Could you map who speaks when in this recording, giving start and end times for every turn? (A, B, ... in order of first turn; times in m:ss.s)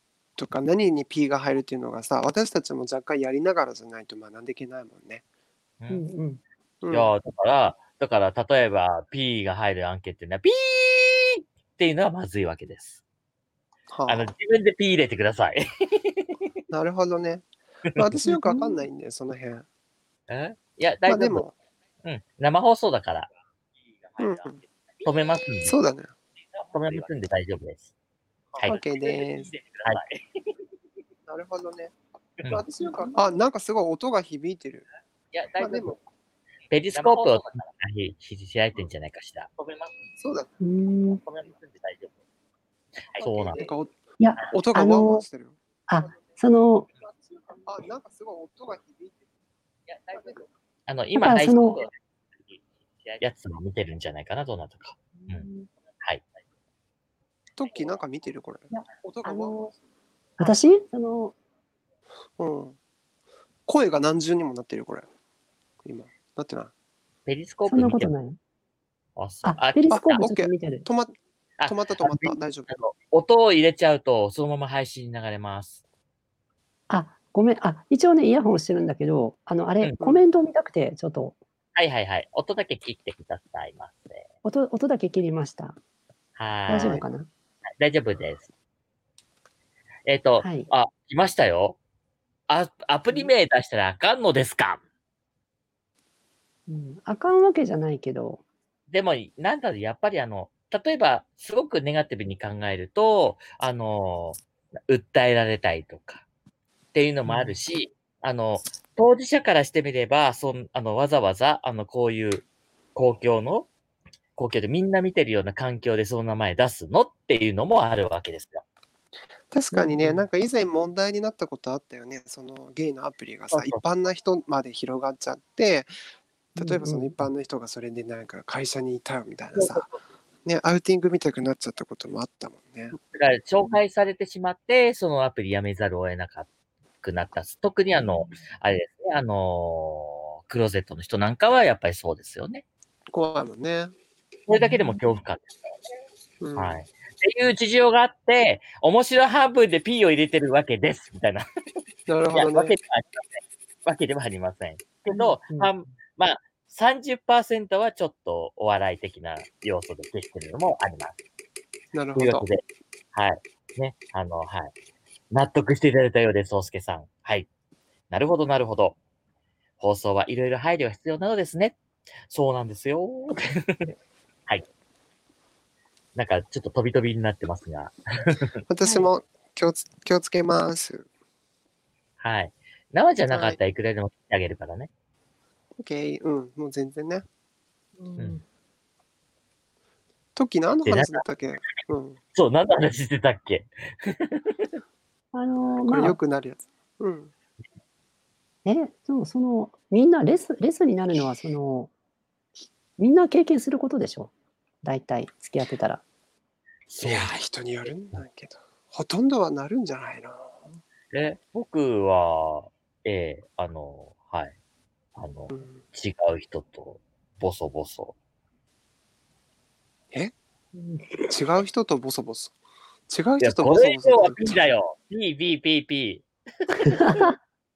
0:00.4-0:05.2 A
0:05.8-0:06.1 B
0:05.9-0:06.4 C
0:06.8-0:07.1 A
0:06.9-0:13.0 B
0:13.9-0:14.3 A
0:14.1-0:16.4 B
0:16.7-0:19.6 A
0:18.3-0:18.8 C
0:20.3-0:21.4 B
0:21.1-0:21.5 A
0:22.0-0:23.3 B
0:24.2-0:24.6 A
0:25.0-0:25.8 B
0:25.7-0:26.1 A
0:26.6-0:27.9 B
0:28.6-0:30.2 B
0:28.6-0:29.5 A
0:31.3-0:31.9 A
0:32.5-0:34.9 A
0:32.8-0:33.4 C
0:35.3-0:36.0 B
0:35.6-0:36.0 A
0:36.7-0:39.9 B
0:40.2-0:40.5 A
0:40.6-0:41.2 C
0:41.2-0:42.1 B
0:43.1-0:43.7 B
0:43.2-0:43.9 A
0:44.2-0:45.2 C
0:44.5-0:45.6 A
0:45.9-0:46.9 C
0:47.6-0:49.2 A
0:50.1-0:50.5 A
0:50.9-0:55.5 B
0:51.2-0:51.8 C
0:55.2-0:55.7 C
0:57.6-0:59.6 A
0:58.7-0:59.7 C
1:00.4-1:01.4 C
1:02.4-1:02.8 A
1:03.7-1:05.1 A
1:05.8-1:06.7 A
1:07.3-1:08.1 B
1:07.7-1:08.4 C
1:09.2-1:10.3 B
1:09.4-1:10.9 C
1:09.9-1:11.2 A
1:11.6-1:15.8 B
1:11.7-1:12.7 A
1:16.9-1:21.4 C
1:21.8-1:24.3 B
1:24.4-1:25.8 C
1:26.4-1:27.0 B
1:26.7-1:27.0 A
1:26.7-1:27.3 C
1:27.8-1:28.5 B
1:30.1-1:31.8 B
1:30.4-1:30.7 C
1:32.5-1:34.8 B
1:36.7-1:38.4 C
1:38.9-1:46.2 B
1:46.9-1:53.7 B
1:47.2-1:47.6 C
1:54.4-1:58.6 B
1:59.5-2:05.9 A
1:59.7-2:00.2 C
2:03.5-2:03.8 B
2:06.6-2:09.9 A
2:06.6-2:07.3 C
2:09.6-2:10.0 B
2:10.5-2:13.0 A
2:12.9-2:16.5 B
2:17.0-2:22.6 B
2:18.0-2:18.3 C
2:23.1-2:23.9 A
2:24.5-2:25.8 B
2:24.5-2:25.0 C
2:26.4-2:26.8 A
2:26.6-2:31.5 B
2:32.1-2:32.8 A
2:32.3-2:41.2 B
2:35.1-2:35.7 C
2:41.9-2:42.5 A
2:42.2-2:42.6 B
2:43.1-2:44.7 B
2:45.3-2:47.5 B
2:48.1-2:49.0 B
2:49.8-2:51.8 B
2:52.3-2:53.9 B
2:56.2-2:58.5 B
2:58.7-3:01.1 A
2:58.8-2:59.1 C
3:02.2-3:04.9 B
3:03.3-3:03.6 A
3:05.8-3:07.2 A
3:08.0-3:08.4 C
3:10.4-3:12.2 A
3:10.8-3:11.2 B
3:12.4-3:14.7 B
3:15.3-3:16.2 C
3:15.8-3:17.3 A
3:18.6-3:21.9 C
3:23.0-3:24.3 C
3:24.8-3:26.0 C
3:26.9-3:27.3 B
3:27.0-3:30.6 A
3:31.1-3:34.6 B
3:35.2-3:38.1 B
3:35.5-3:35.8 A
3:40.8-3:41.3 C
3:41.3-3:42.6 A
3:43.1-3:44.6 A
3:43.4-3:47.3 B
3:46.9-3:47.3 C